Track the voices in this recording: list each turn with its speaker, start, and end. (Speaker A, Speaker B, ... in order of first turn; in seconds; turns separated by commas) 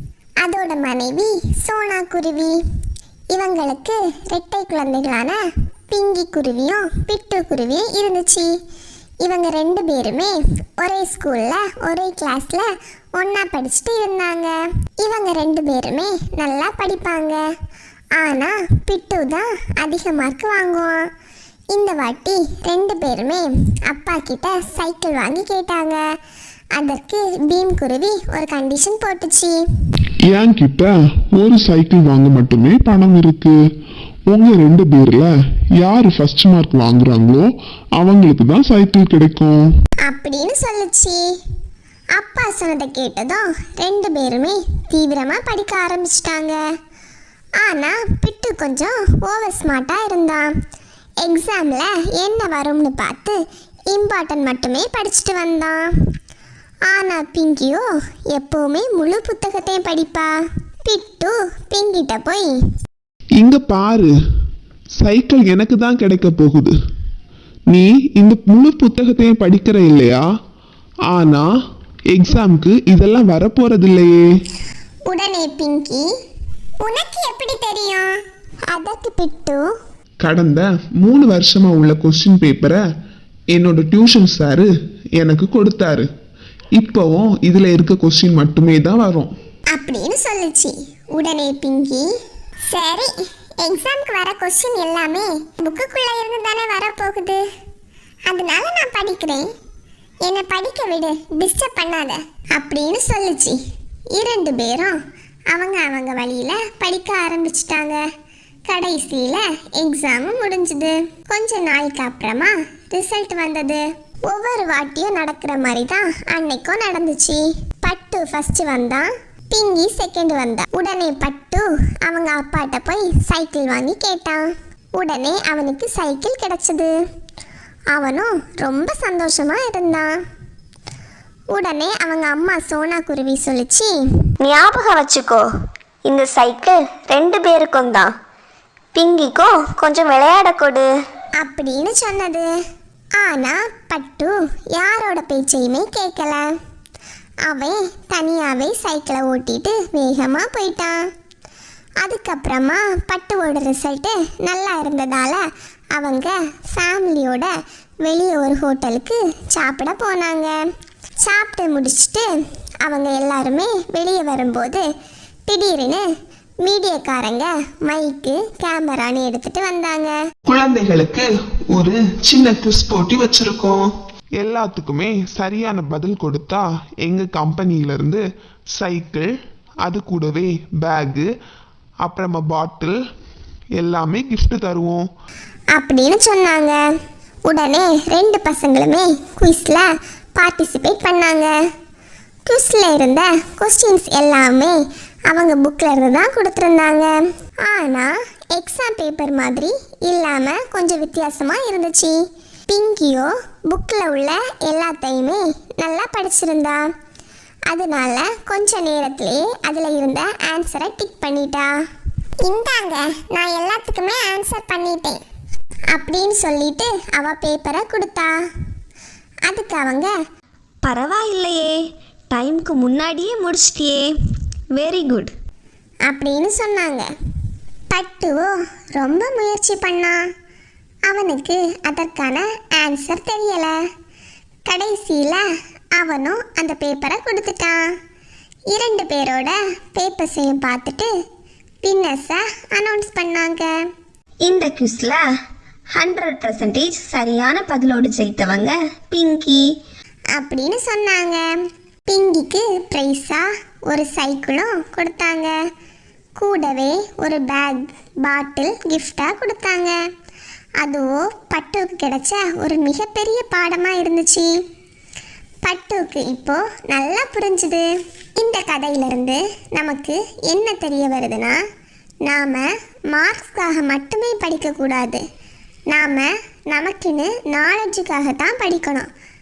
Speaker A: 0.4-2.6, Speaker A: 3.3-8.5, Speaker A: 9.2-17.4, Speaker A: 18.1-21.1, Speaker A: 21.7-26.0, Speaker A: 26.7-29.6, Speaker B: 30.3-33.5, Speaker B: 34.3-39.7, Speaker A: 40.0-41.2, Speaker A: 42.1-46.6, Speaker A: 47.6-50.5, Speaker A: 51.2-53.4, Speaker A: 53.9-55.9, Speaker A: 56.9-60.3, Speaker A: 60.8-62.5, Speaker B: 63.4-64.1, Speaker B: 65.0-66.7, Speaker B: 67.7-70.2, Speaker B: 71.1-71.5, Speaker B: 72.1-74.2, Speaker A: 75.1-76.1, Speaker A: 76.8-78.1, Speaker A: 78.7-79.7, Speaker B: 80.2-82.8, Speaker B: 83.5-84.7, Speaker B: 85.2-86.0, Speaker B: 86.7-89.3, Speaker A: 89.7-92.1, Speaker A: 92.7-97.4, Speaker A: 98.3-99.4, Speaker A: 100.2-103.6, Speaker A: 104.1-105.0, Speaker A: 105.5-108.0, Speaker A: 108.7-126.9, Speaker A: 127.9-130.2, Speaker A: 131.5-133.9, Speaker C: 134.4-135.5, Speaker C: 136.0-138.1, Speaker C: 138.9-140.9, Speaker A: 141.4-142.5, Speaker A: 143.2-146.5, Speaker A: 147.4-151.0, Speaker A: 152.0-155.4, Speaker A: 155.9-160.6, Speaker A: 161.2-162.3, Speaker A: 162.8-164.8, Speaker A: 165.5-166.1, Speaker A: 166.6-170.2, Speaker B: 170.4-178.2, Speaker B: 178.7-179.3, Speaker B: 179.8-181.3, Speaker B: 182.0-183.0, Speaker B: 183.8-185.0, Speaker A: 185.7-186.8, Speaker A: 187.4-191.5, Speaker A: 192.4-194.8, Speaker A: 195.3-197.1, Speaker A: 197.6-202.2, Speaker A: 202.7-206.8, Speaker A: 207.7-211.7, Speaker A: 212.4-215.2, Speaker A: 215.9-218.3, Speaker A: 219.5-220.1, Speaker C: 220.8-221.8, Speaker C: 222.3-224.1, Speaker C: 224.7-225.3, Speaker A: 226.1-227.1, Speaker A: 227.9-230.2, Speaker A: 231.1-233.8, Speaker A: 234.7-235.4, Speaker A: 236.0-237.8, Speaker A: 238.7-241.1, Speaker A: 241.8-243.7, Speaker C: 244.4-245.2, Speaker C: 245.9-249.6, Speaker A: 250.3-251.4, Speaker A: 252.1-255.6, Speaker A: 256.4-259.9, Speaker A: 260.8-264.5, Speaker A: 265.6-271.6, Speaker A: 272.2-275.2, Speaker A: 275.9-279.1